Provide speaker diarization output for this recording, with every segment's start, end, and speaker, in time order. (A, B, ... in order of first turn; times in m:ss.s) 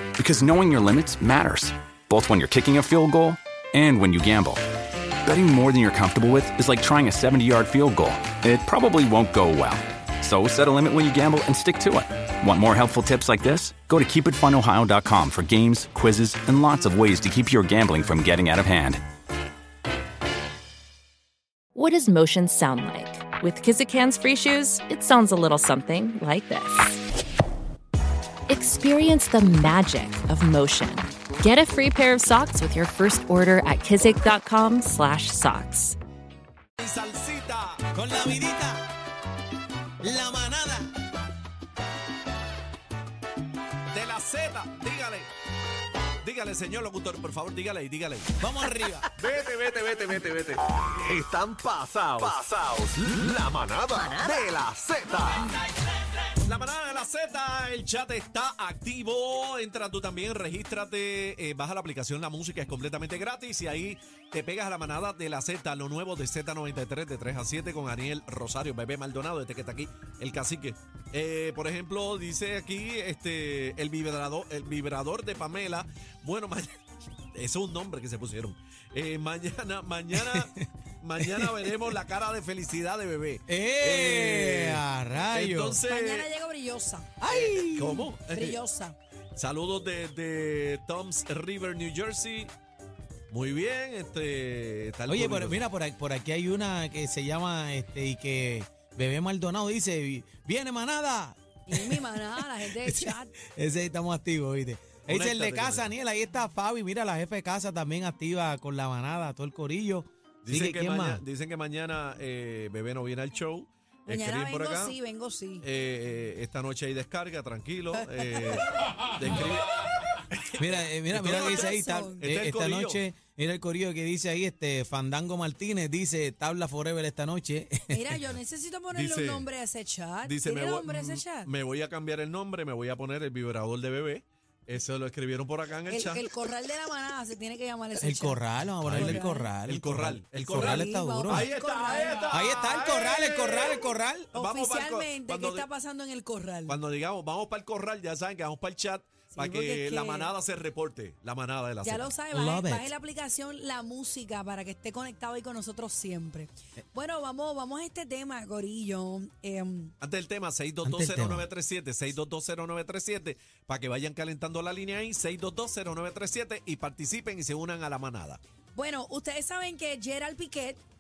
0:00.2-0:04.6 A
0:05.2-0:19.0 A
0:21.7-0:27.0 B
0:28.5-0:36.0 B
0:36.8-0:37.8 C
0:37.9-0:38.9 D
0:40.0-0:40.9 D
0:43.9-0:45.3 C
0:46.2-0:48.4 C
0:48.4-0:49.1 D
0:49.2-0:50.4 C
0:49.3-0:55.5 E
0:51.5-0:52.4 C
0:54.2-0:54.6 C
0:56.2-1:16.8 C
1:17.3-1:26.3 C
1:20.1-1:21.9 D
1:23.5-1:25.8 D
1:25.8-1:27.1 F
1:27.2-1:28.1 D
1:27.3-1:28.6 C
1:28.3-1:29.0 F
1:29.4-1:32.5 C
1:33.3-1:35.7 C
1:35.1-1:51.2 D
1:41.7-1:43.3 F
1:45.1-1:45.9 C
1:50.4-1:55.0 C
1:54.1-1:55.6 F
1:55.6-1:59.8 C
1:58.0-1:58.6 F
2:00.6-2:08.2 D
2:00.6-2:03.0 C
2:01.3-2:02.3 F
2:07.9-2:11.5 F
2:08.9-2:09.5 C
2:10.2-2:16.3 C
2:15.9-2:19.5 F
2:18.0-2:21.5 D
2:18.8-2:23.8 C
2:20.5-2:23.6 F
2:22.3-2:24.3 D
2:24.3-2:26.8 F
2:24.3-2:25.7 C
2:26.7-2:32.1 C
2:29.3-2:30.3 F
2:31.8-2:39.9 F
2:32.3-2:32.9 D
2:40.0-2:48.4 C
2:40.8-2:41.5 D
2:48.7-2:50.8 F